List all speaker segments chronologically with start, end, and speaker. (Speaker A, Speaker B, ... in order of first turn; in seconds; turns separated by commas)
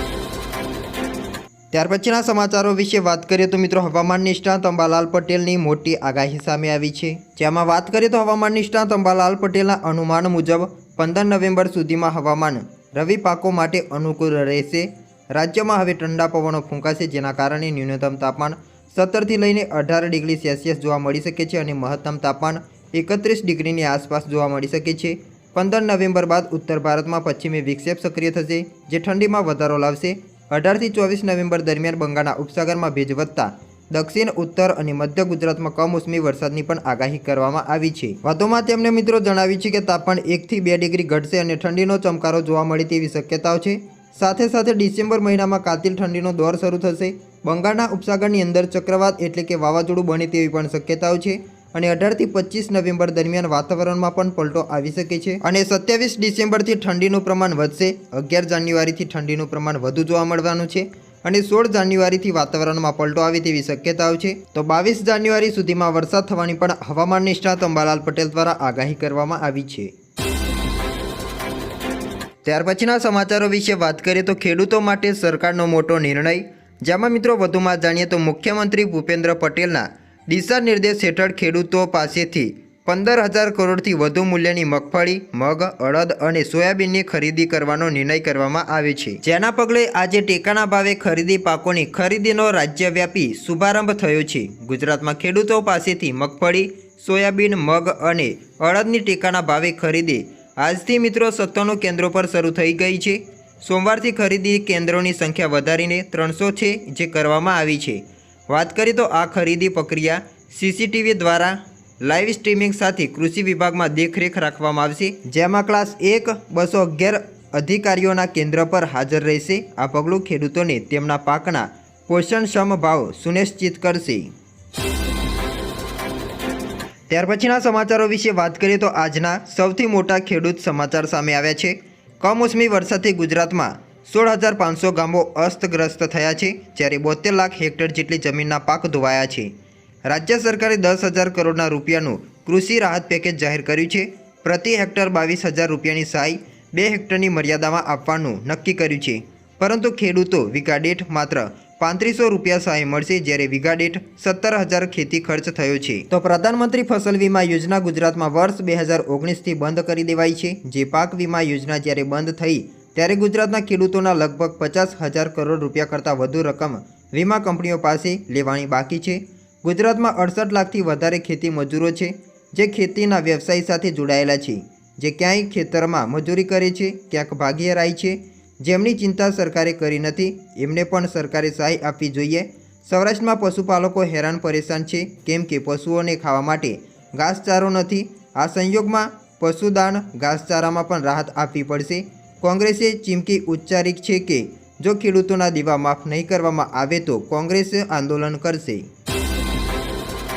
Speaker A: 1.7-69.9, Speaker A: 72.4-124.3, Speaker A: 127.1-139.5, Speaker A: 140.1-198.8